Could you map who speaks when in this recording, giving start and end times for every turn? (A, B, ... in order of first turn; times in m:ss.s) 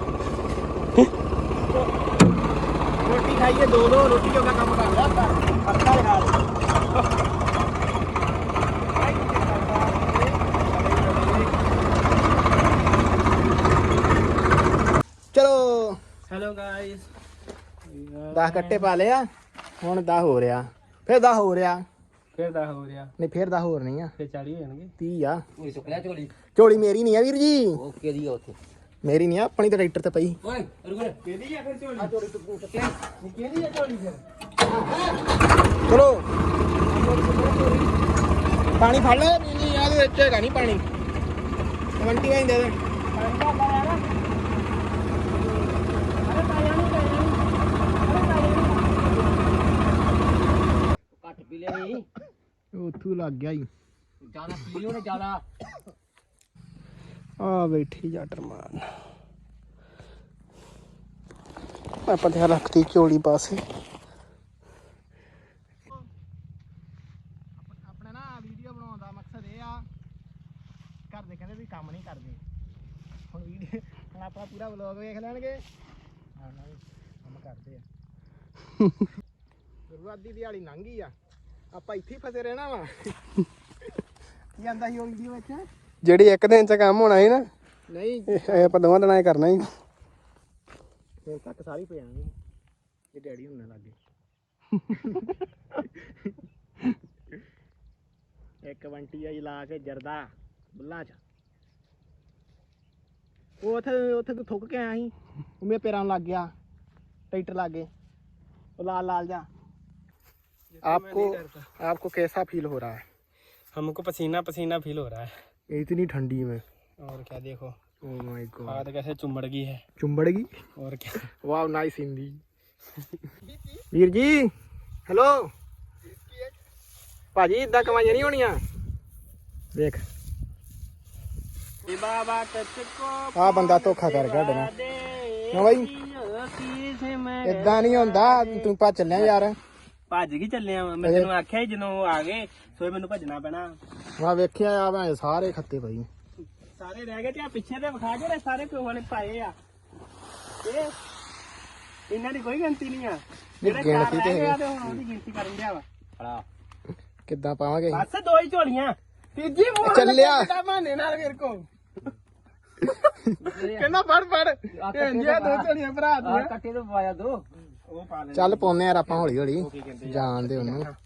0:03.0-0:06.4 A
0:09.0-0:11.5 B
0:15.3-0:16.0 A
0:16.3-0:17.1 B
0:17.8-0:18.9 B
0:18.3-0:19.2 A
0:19.8-0:21.8 A
0:22.3-0:23.1 B
0:23.2-0:24.1 A
0:24.2-0:24.9 B
0:25.0-0:25.4 A
0:25.6-0:26.3 C
0:26.5-0:27.8 A
0:27.8-0:28.6 C
0:29.0-0:30.4 A
0:30.4-0:31.2 C
0:31.2-0:32.1 B
0:32.0-0:33.0 C
0:33.2-0:34.2 B
0:35.9-0:36.2 A
0:36.9-0:37.9 C
0:38.8-0:40.8 A
0:42.0-0:42.7 A
0:43.1-0:44.0 B
0:46.2-0:47.4 B
0:48.0-0:49.5 B
0:51.1-0:52.1 C
0:52.7-0:53.7 A
0:54.2-0:55.4 C
0:57.4-0:58.9 B
1:02.1-1:03.6 B
1:07.6-1:09.8 A
1:11.1-1:12.4 A
1:13.3-1:15.6 A
1:16.4-1:17.8 A
1:19.9-1:21.1 A
1:21.7-1:23.1 A
1:24.6-1:25.6 A
1:26.0-1:27.4 B
1:27.9-1:28.8 A
1:28.3-1:29.7 B
1:31.2-1:32.3 A
1:33.1-1:33.9 A
1:34.9-1:35.3 A
1:38.6-1:41.2 A
1:43.6-1:46.5 A
1:47.3-1:47.9 A
1:48.8-1:49.5 A
1:50.7-1:51.6 B
1:50.8-1:53.0 A
1:53.7-1:55.3 B
1:55.7-1:56.6 A
1:57.0-1:57.8 B
1:58.0-1:58.8 A
1:58.7-1:59.8 B
2:00.0-2:00.5 A
2:00.8-2:01.2 B
2:01.4-2:02.4 A
2:03.8-2:04.5 A
2:05.1-2:05.5 A
2:07.3-2:08.6 A
2:09.7-2:10.0 A
2:11.8-2:18.7 B
2:13.3-2:14.7 A
2:15.5-2:15.9 A
2:17.4-2:19.6 A
2:20.1-2:23.8 B
2:21.0-2:21.3 A
2:24.2-2:26.1 A
2:26.7-2:29.5 B
2:30.6-2:31.0 B
2:32.1-2:35.8 B
2:33.6-2:35.0 A
2:36.2-2:36.4 C
2:37.3-2:38.0 A
2:37.9-2:41.6 B
2:39.8-2:40.5 A
2:43.4-2:43.9 C
2:43.7-2:46.5 B
2:44.7-2:47.4 C
2:47.9-2:50.9 B
2:48.3-2:50.9 A